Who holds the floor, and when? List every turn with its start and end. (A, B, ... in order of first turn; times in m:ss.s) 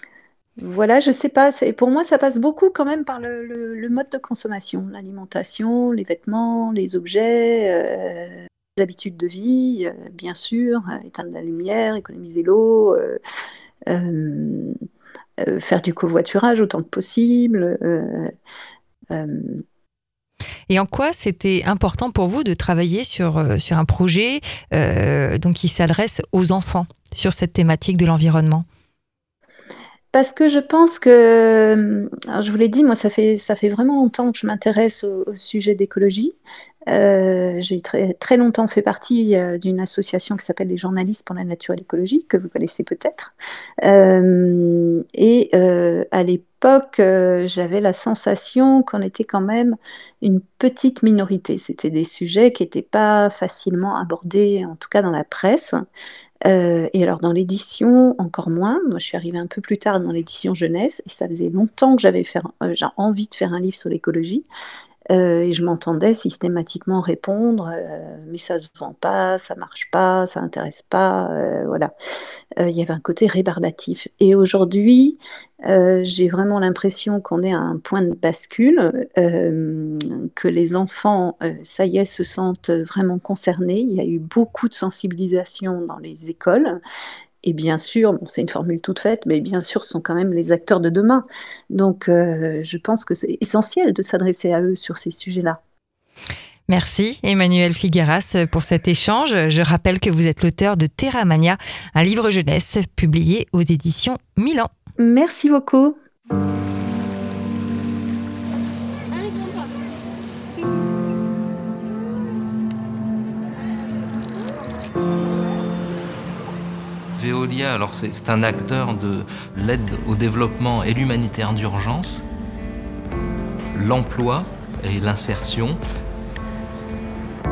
0:00.6-0:13.2 A
0:13.9-0:14.7 A
0:15.4-0:18.3 A
0:19.1-0:19.6 A
0:20.7-0:28.6 B
0:30.1-0:36.4 A
0:36.9-0:43.3 A
0:43.8-0:55.8 A
0:56.5-1:04.5 A
1:05.1-1:11.9 A
1:12.6-1:26.8 A
1:27.4-1:35.6 A
1:36.7-1:44.7 B
1:45.0-1:46.0 A
1:57.2-2:02.2 C
2:03.7-2:05.8 C